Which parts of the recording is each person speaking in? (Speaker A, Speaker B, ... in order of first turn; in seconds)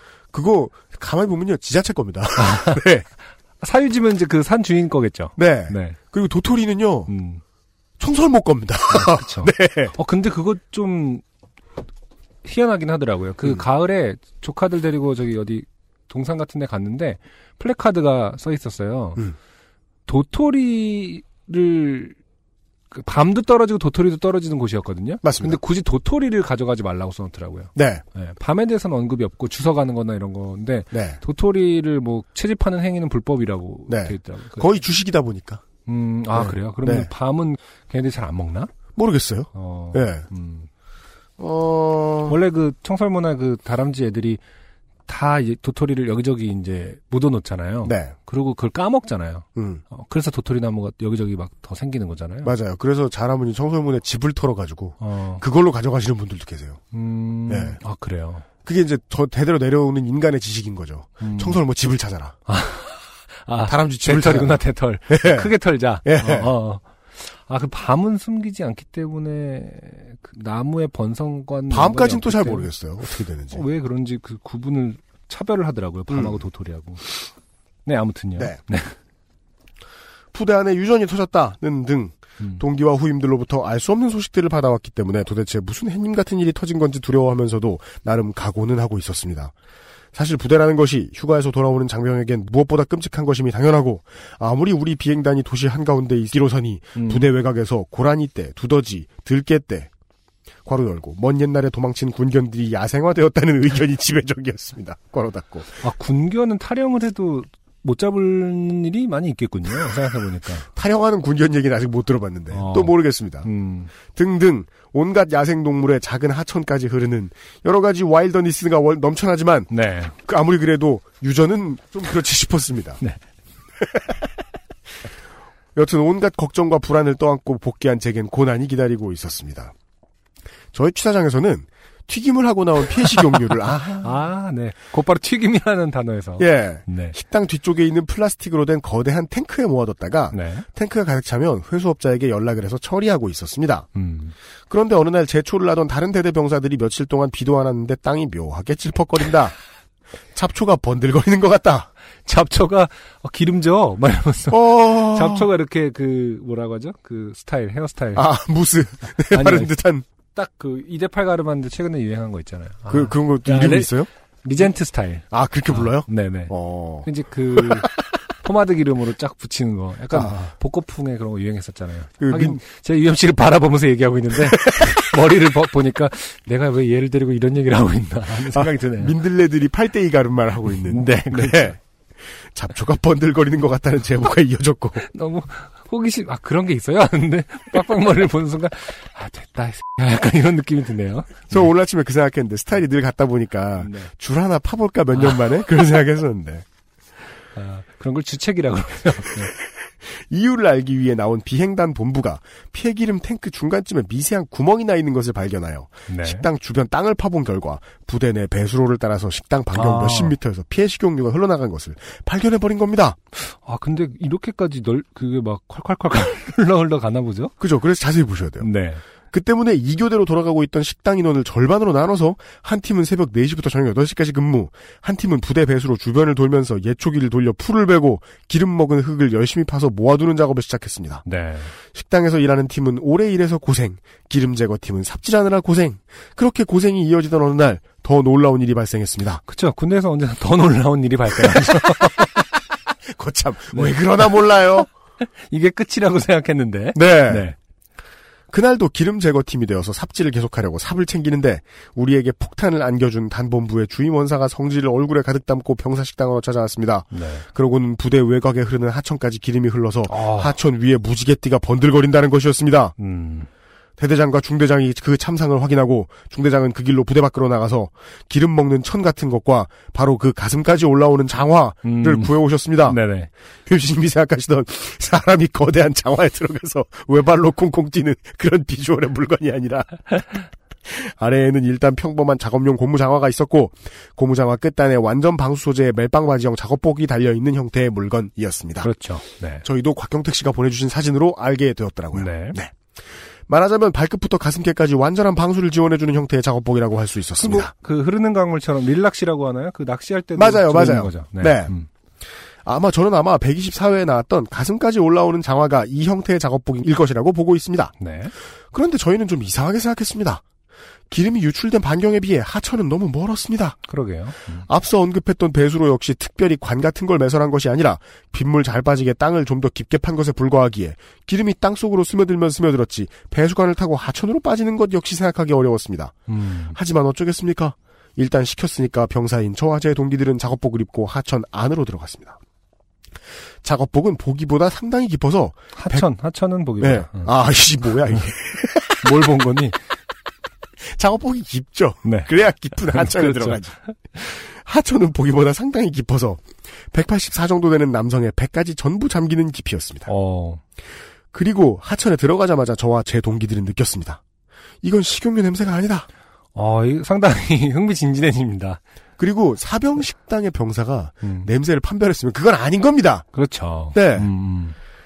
Speaker A: 0.3-3.1, 5.4-7.1, 8.0-10.0, 25.2-25.6, 27.8-28.0, 30.9-31.2, 33.9-35.6, 36.3-37.1, 39.0-40.3, 41.4-42.4, 47.8-48.2, 49.6-49.8, 52.4-56.8, 57.5-57.8, 58.6-62.4, 63.6-66.5, 71.7-73.7, 76.1-76.4, 80.3-89.5, 90.1-99.9, 100.7-105.8, 110.7-113.5, 114.1-123.0, 123.8-124.2, 125.8-129.7, 130.7-134.1, 136.4-143.9, 144.7-149.6, 150.3-151.9, 154.5-155.5, 158.2-160.1, 162.9-164.1, 165.3-168.0, 170.1-170.4, 172.2-172.6, 174.5-174.9, 178.5-181.8, 182.5-185.1, 191.5-196.7, 199.6-213.2, 217.6-218.7, 219.3-231.2, 231.9-239.4, 243.1-244.9, 246.9-247.5, 248.5-262.9, 264.0-273.0, 273.7-288.9, 289.6-292.8, 293.5-297.7, 300.4-301.7, 302.6-307.9, 308.7-310.4, 311.1-313.8, 314.6-326.2, 326.7-332.4, 333.6-336.1, 336.8-339.2, 340.9-350.1, 351.3-354.2, 354.8-356.1, 359.2-363.3, 363.9-364.3
Speaker B: 2.4-2.8, 3.6-6.0, 7.1-7.4, 8.9-11.2, 12.4-19.3, 20.1-22.2, 22.9-34.6, 35.9-38.7, 39.5-40.7, 42.3-44.4, 45.1-52.5, 55.0-55.4, 56.9-58.5, 61.2-61.6, 62.5-72.7, 73.5-77.0, 77.8-79.0, 97.0-97.3, 105.8-110.7, 112.5-113.9, 119.7-120.2, 134.0-137.2, 140.3-140.7, 143.9-144.3, 152.2-158.3, 159.3-159.7, 160.3-163.9, 164.4-166.5, 167.1-179.2, 180.9-181.8, 185.0-191.7, 193.8-194.1, 197.6-199.5, 206.1-206.5, 209.7-210.4, 213.4-217.5, 218.6-219.0, 231.2-231.7, 239.5-242.5, 243.7-244.4, 245.2-247.6, 257.1-257.5, 260.1-260.6, 263.0-263.5, 271.8-273.3, 288.8-289.6, 292.1-292.6, 297.4-301.9, 308.0-308.3, 313.9-314.7, 326.3-326.8, 335.8-337.3, 339.0-339.8, 342.1-343.6, 350.1-350.6, 356.5-358.8, 361.2-361.5, 363.3-364.8